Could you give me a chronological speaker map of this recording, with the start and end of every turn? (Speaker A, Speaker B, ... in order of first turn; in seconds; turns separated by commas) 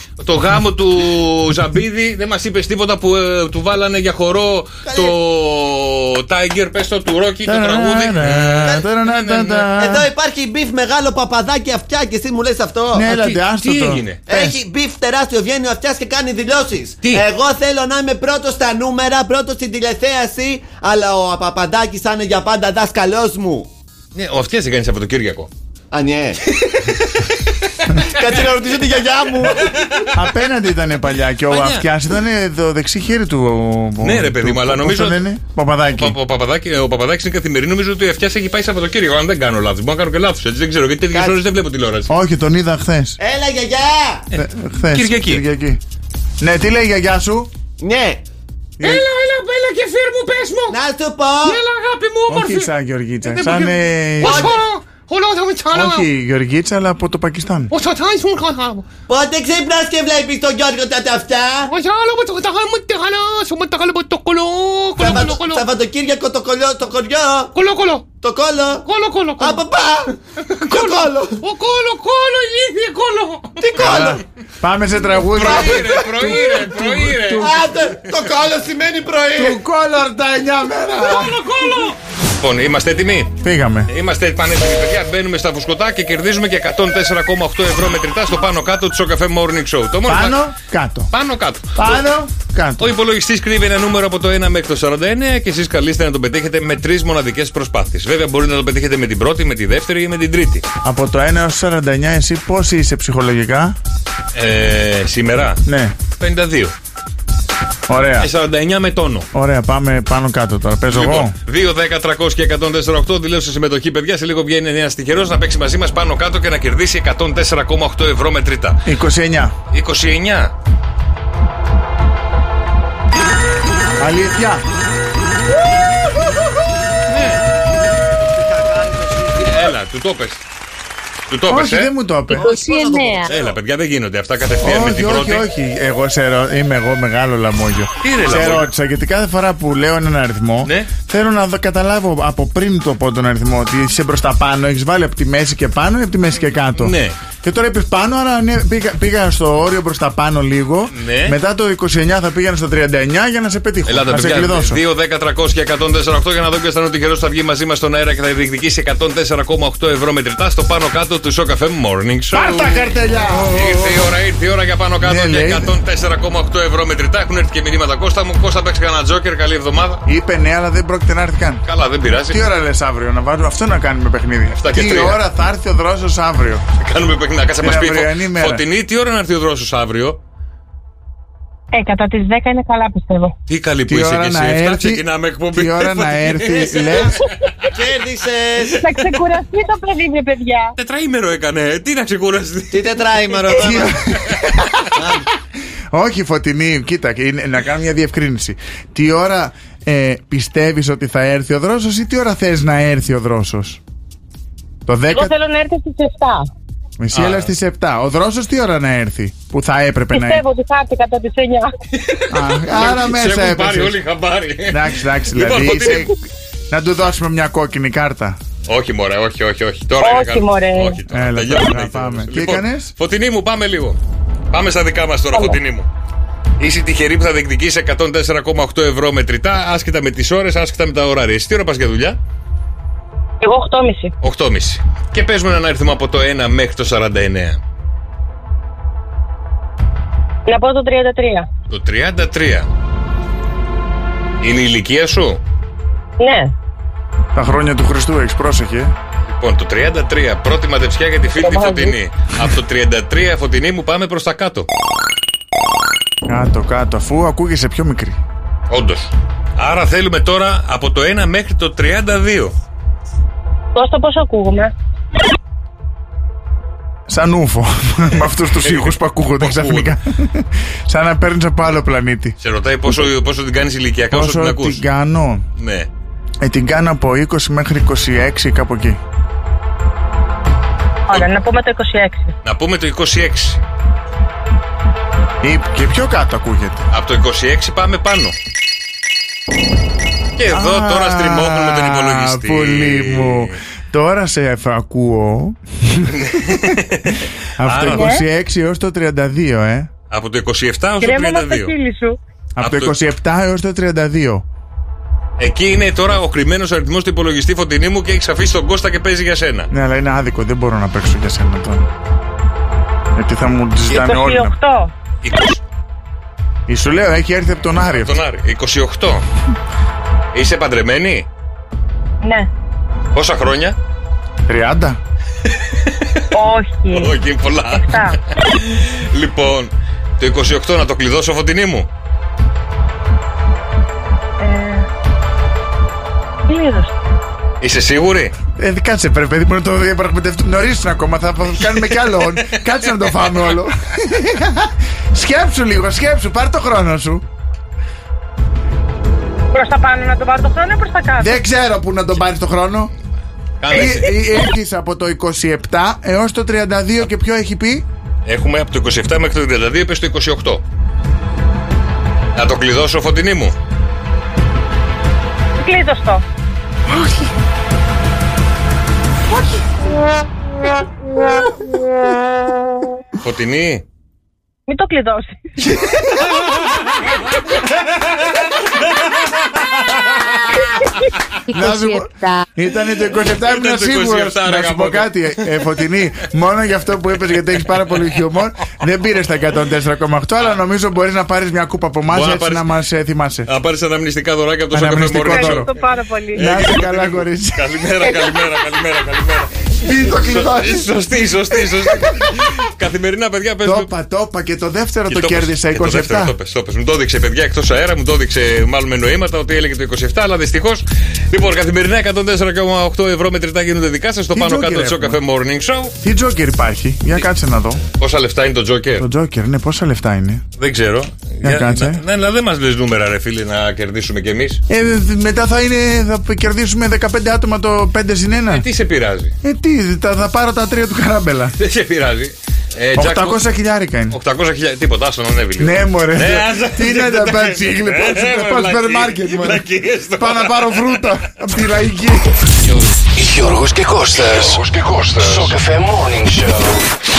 Speaker A: 0.2-9.7, Speaker B: 4.8-5.2, Speaker C: 7.4-10.1, Speaker B: 9.8-13.2, Speaker C: 12.9-14.6, Speaker A: 13.2-14.2, Speaker B: 14.3-23.7, Speaker A: 24.1-25.5, Speaker B: 25.9-26.4, Speaker B: 28.0-30.1, Speaker A: 28.0-28.4, Speaker A: 29.5-30.1, Speaker C: 30.1-36.1, Speaker A: 31.5-31.9, Speaker A: 34.0-35.2, Speaker A: 35.9-42.1, Speaker B: 41.1-41.4, Speaker C: 42.1-43.2, Speaker B: 43.2-44.3, Speaker C: 44.3-45.8, Speaker A: 44.9-45.4, Speaker C: 46.4-47.5, Speaker B: 47.8-48.2, Speaker D: 48.8-50.8, Speaker B: 50.7-51.6, Speaker D: 51.4-52.7, Speaker C: 52.3-54.5, Speaker D: 53.2-56.1, Speaker B: 54.2-54.6, Speaker C: 55.7-57.7, Speaker D: 57.7-58.9, Speaker B: 59.1-61.7, Speaker D: 61.6-65.7, Speaker B: 65.0-67.5, Speaker D: 67.5-68.0, Speaker B: 68.2-68.8, Speaker D: 68.8-69.6, Speaker B: 69.4-71.4, Speaker D: 70.5-73.9, Speaker B: 73.6-74.2, Speaker C: 73.8-77.6, Speaker A: 75.3-77.5, Speaker B: 75.5-76.3, Speaker B: 77.4-79.6, Speaker C: 79.3-81.4, Speaker D: 81.0-81.9, Speaker A: 82.4-83.3, Speaker C: 83.4-83.9, Speaker A: 83.9-90.4, Speaker C: 90.1-91.1, Speaker A: 91.1-91.9, Speaker C: 91.7-92.9, Speaker A: 92.8-100.6, Speaker C: 100.8-103.8, Speaker A: 104.3-105.6, Speaker C: 105.6-106.0, Speaker A: 106.2-106.7, Speaker C: 107.9-108.3, Speaker A: 108.2-109.3, Speaker C: 109.3-111.3, Speaker A: 110.9-118.8, Speaker C: 118.8-119.5, Speaker A: 119.7-120.5, Speaker C: 124.0-124.6, Speaker A: 127.1-127.4, Speaker B: 128.3-129.7, Speaker A: 129.4-130.4, Speaker A: 131.3-131.9, Speaker C: 131.5-132.5, Speaker B: 132.3-133.5, Speaker A: 133.2-135.5, Speaker C: 134.6-154.8, Speaker A: 138.0-138.7, Speaker A: 140.6-140.9, Speaker A: 146.8-147.2, Speaker A: 150.9-151.4, Speaker A: 153.9-170.0, Speaker C: 162.3-164.1, Speaker C: 165.0-165.7, Speaker C: 170.0-171.6, Speaker A: 171.6-172.5, Speaker C: 172.3-176.6, Speaker A: 174.5-175.2, Speaker A: 176.8-180.2, Speaker C: 177.6-178.6, Speaker E: 181.7-183.3, Speaker A: 183.5-187.7, Speaker C: 183.9-187.2, Speaker B: 187.7-188.8, Speaker A: 188.6-188.9, Speaker E: 188.8-190.7, Speaker A: 190.8-192.9, Speaker B: 192.7-193.9, Speaker C: 193.5-194.7, Speaker B: 194.9-195.3, Speaker C: 195.9-203.8, Speaker C: 204.8-205.3, Speaker E: 205.1-206.5, Speaker C: 207.0-210.4, Speaker A: 207.1-207.5, Speaker E: 210.1-211.7, Speaker A: 211.9-216.1, Speaker C: 212.3-214.0, Speaker C: 214.7-216.2, Speaker C: 216.7-218.4, Speaker A: 218.7-224.0, Speaker E: 220.0-221.0, Speaker C: 221.1-222.9, Speaker A: 224.5-225.9, Speaker E: 225.3-225.6, Speaker A: 226.6-232.2, Speaker E: 233.4-234.1, Speaker A: 234.2-237.6, Speaker E: 240.5-241.5, Speaker A: 241.7-242.7, Speaker A: 244.4-245.4, Speaker E: 246.2-246.5, Speaker C: 247.3-248.9, Speaker A: 249.3-254.7, Speaker E: 251.4-251.9, Speaker C: 256.2-258.2, Speaker A: 258.7-262.5, Speaker E: 263.7-264.7, Speaker C: 267.1-272.4, Speaker A: 268.6-269.9, Speaker A: 272.4-274.8, Speaker C: 274.1-275.4, Speaker A: 275.6-275.9, Speaker C: 276.4-279.0, Speaker E: 281.1-282.3, Speaker A: 282.4-283.6, Speaker C: 285.4-286.9, Speaker A: 286.9-288.3, Speaker A: 290.3-293.6, Speaker C: 290.5-296.8, Speaker A: 296.1-298.1, Speaker C: 297.6-299.9, Speaker E: 297.9-298.2, Speaker A: 300.1-301.7, Speaker E: 301.0-302.2, Speaker C: 302.6-304.4, Speaker A: 302.6-302.9, Speaker A: 305.4-309.7, Speaker C: 309.7-311.9, Speaker C: 313.1-314.6, Speaker E: 313.9-314.9, Speaker A: 315.2-315.6, Speaker C: 316.7-318.2, Speaker A: 317.9-319.2, Speaker A: 320.3-321.3, Speaker E: 322.2-322.5, Speaker A: 323.1-323.8, Speaker C: 324.4-325.0, Speaker A: 325.5-326.1, Speaker E: 326.3-328.2, Speaker A: 326.9-331.9, Speaker E: 334.4-334.9, Speaker E: 336.4-336.9, Speaker A: 337.6-338.3, Speaker C: 338.6-347.2, Speaker A: 342.4-343.5, Speaker E: 349.5-351.4, Speaker C: 351.2-352.9, Speaker A: 353.6-354.1, Speaker C: 353.7-357.9, Speaker A: 358.2-360.6, Speaker A: 362.4-363.6, Speaker E: 365.6-366.2, Speaker A: 373.2-373.8, Speaker E: 374.7-375.4, Speaker A: 378.2-380.9, Speaker C: 381.5-393.5, Speaker A: 383.4-385.5, Speaker A: 392.1-392.7, Speaker A: 393.4-395.7, Speaker C: 394.7-395.7, Speaker E: 395.2-396.4, Speaker A: 396.3-403.9, Speaker C: 396.3-397.7, Speaker E: 398.0-398.4, Speaker C: 399.8-400.8, Speaker C: 403.6-406.3, Speaker A: 405.1-415.9, Speaker C: 414.3-415.2, Speaker C: 416.0-417.8, Speaker A: 418.0-419.1, Speaker C: 419.0-420.4, Speaker A: 420.6-424.6, Speaker C: 421.4-422.0, Speaker C: 424.7-428.6, Speaker A: 428.5-429.3, Speaker C: 429.4-431.6, Speaker A: 431.6-433.4, Speaker C: 432.9-434.2, Speaker A: 434.1-441.1, Speaker C: 435.6-442.3, Speaker F: 443.1-446.8